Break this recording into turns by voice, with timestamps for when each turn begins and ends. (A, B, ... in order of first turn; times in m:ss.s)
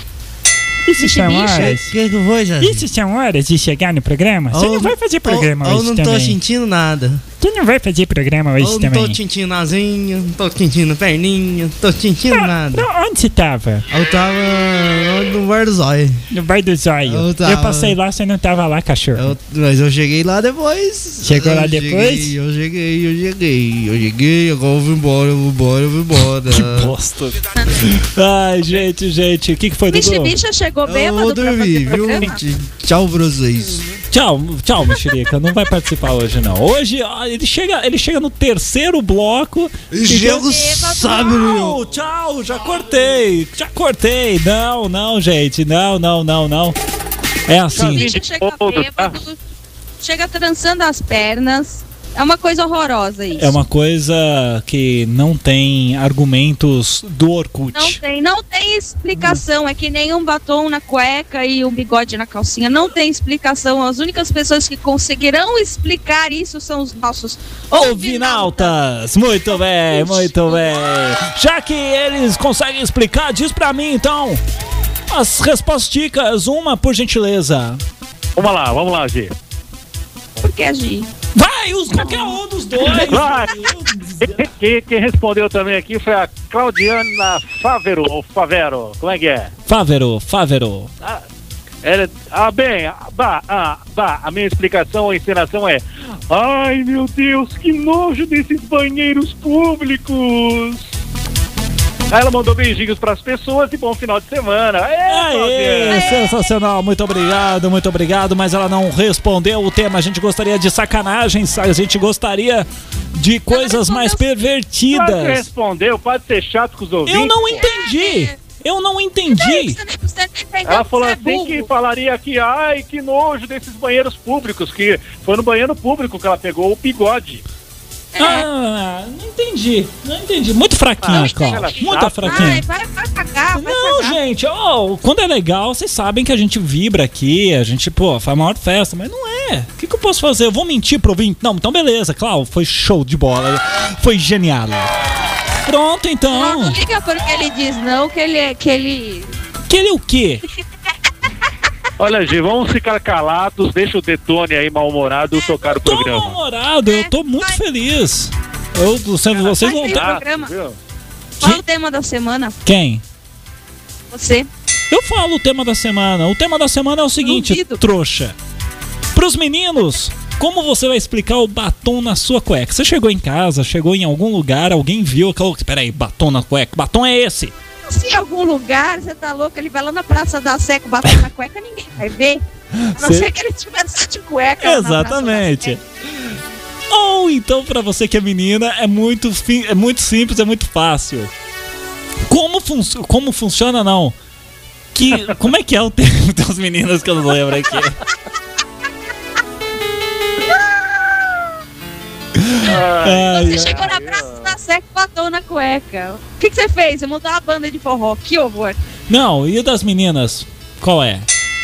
0:00.9-0:01.9 A
0:01.0-0:01.8 B
0:01.1-0:02.9 C
0:02.6-0:06.4 A
0:04.5-0:07.2 C
0:07.4-0:09.2 A
0:08.6-0:12.9 C
0:12.3-0:13.8 A
0:13.9-0:16.2 C
0:16.3-0:19.3 A
0:17.0-0:18.0 C
0:19.2-0:26.9 C
0:21.2-0:22.3 A
0:26.5-0:30.4 D
0:29.9-0:32.4 B
0:30.8-0:33.9 C
0:34.1-0:40.5 D
0:39.9-0:41.8 C
0:40.1-0:41.5 B
0:41.3-0:46.8 D
0:47.5-0:48.1 D
0:47.7-0:49.4 B
0:47.7-0:49.2 E
0:50.0-0:53.6 B
0:53.4-0:58.0 D
0:57.7-1:08.8 B
0:59.2-0:59.4 D
1:07.7-1:14.4 D
1:09.6-1:10.7 B
1:15.1-1:17.8 D
1:18.4-1:19.3 E
1:20.4-1:21.1 B
1:21.3-1:24.4 D
1:22.8-1:23.6 E
1:24.2-1:29.5 E
1:29.7-1:30.9 D
1:31.8-1:40.8 E
1:42.1-1:46.1 E
1:45.1-1:55.4 D
1:45.9-1:46.2 B
1:53.5-1:54.4 B
1:54.9-1:57.6 E
1:57.1-1:59.8 D
1:57.5-1:58.4 B
1:59.3-2:01.7 B
2:00.6-2:07.4 E
2:08.1-2:08.5 B
2:08.2-2:12.6 D
2:11.0-2:12.6 E
2:11.1-2:14.2 B
2:13.5-2:24.9 D
2:25.6-2:26.8 D
2:26.3-2:29.3 B
2:29.7-2:30.4 D
2:32.0-2:36.4 E
2:35.6-2:40.1 D
2:36.9-2:37.6 B
2:39.4-2:40.8 E
2:39.5-2:40.5 B
2:41.4-2:42.6 B
2:42.6-2:43.0 D
2:44.1-2:44.5 B
2:44.9-2:48.4 D
2:47.2-2:47.8 B
2:49.1-2:57.6 D
2:57.9-3:02.4 B
3:02.7-3:03.3 D
3:02.9-3:05.8 B
3:04.6-3:05.8 D
3:06.9-3:11.3 D
3:12.3-3:14.2 D
3:14.9-3:18.0 D
3:22.4-3:23.9 D
3:22.6-3:24.6 E
3:23.3-3:28.8 B
3:29.1-3:31.3 D